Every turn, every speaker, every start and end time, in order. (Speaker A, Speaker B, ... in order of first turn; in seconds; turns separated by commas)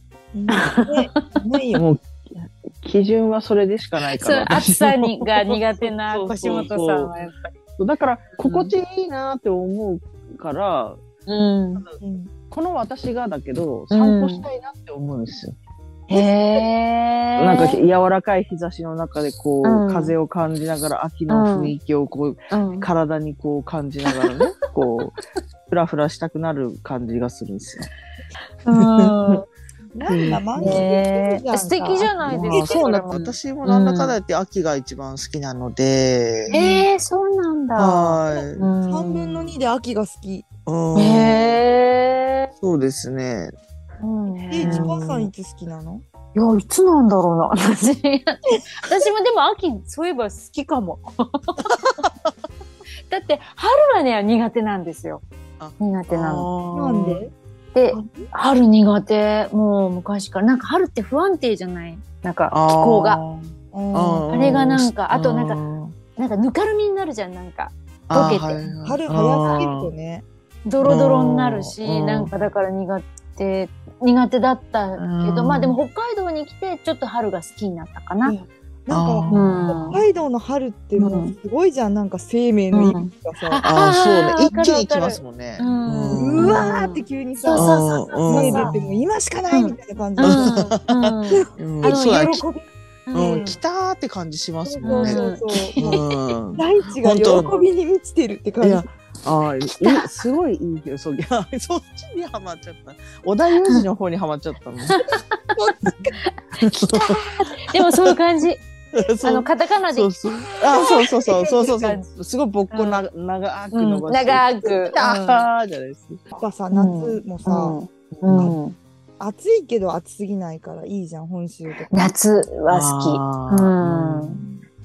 Speaker A: 0.3-1.8, Speaker B: 0.5-1.1, Speaker C: 1.8-7.1, Speaker B: 4.1-7.6, Speaker C: 7.8-11.0, Speaker B: 8.4-8.8, Speaker B: 11.3-11.8, Speaker A: 12.0-12.3, Speaker C: 12.5-15.6, Speaker B: 13.9-14.5, Speaker B: 16.1-17.8, Speaker C: 17.4-25.1, Speaker B: 19.6-20.2, Speaker B: 21.3-21.7, Speaker B: 22.5-22.9, Speaker C: 25.7-27.9, Speaker B: 28.6-29.5, Speaker C: 28.7-29.4, Speaker A: 29.9-32.8, Speaker C: 30.1-30.9, Speaker B: 30.6-34.1, Speaker C: 32.2-36.9, Speaker B: 36.5-39.5, Speaker C: 37.8-38.7, Speaker A: 38.3-40.5, Speaker C: 40.7-41.6, Speaker B: 41.0-42.5, Speaker C: 42.6-43.5, Speaker B: 44.0-45.3, Speaker A: 44.3-46.0, Speaker C: 44.6-45.2, Speaker B: 46.3-51.7, Speaker C: 51.7-52.3, Speaker B: 53.1-55.2, Speaker C: 55.6-57.2, Speaker B: 55.8-56.5, Speaker A: 56.7-57.3, Speaker B: 57.7-63.2, Speaker A: 57.9-58.3, Speaker C: 62.5-65.9, Speaker A: 63.7-64.3, Speaker B: 64.3-65.6, Speaker B: 66.2-68.7, Speaker C: 68.1-69.9, Speaker A: 68.8-70.2, Speaker B: 69.4-69.7, Speaker B: 70.7-78.4, Speaker C: 70.8-72.3, Speaker C: 75.0-75.8, Speaker A: 78.2-83.6, Speaker C: 78.9-79.9, Speaker B: 79.3-80.0, Speaker B: 81.0-81.3, Speaker B: 82.7-88.7, Speaker C: 83.6-86.7, Speaker A: 86.2-90.6, Speaker C: 87.5-89.0, Speaker B: 89.5-93.6, Speaker C: 90.2-92.4, Speaker A: 91.3-92.1, Speaker C: 93.1-95.2, Speaker A: 94.6-96.0, Speaker B: 94.8-96.3, Speaker C: 95.8-97.5, Speaker A: 96.5-98.9, Speaker B: 97.3-97.7, Speaker C: 98.6-105.0, Speaker B: 104.9-105.8, Speaker A: 105.1-106.2, Speaker B: 106.3-108.6, Speaker C: 106.6-108.2, Speaker C: 108.9-116.2, Speaker B: 109.2-112.1, Speaker B: 112.7-113.0, Speaker B: 113.7-115.5, Speaker A: 116.3-117.8, Speaker B: 116.7-118.8, Speaker C: 118.1-118.6, Speaker A: 119.2-122.1, Speaker B: 121.9-124.5, Speaker C: 122.7-124.6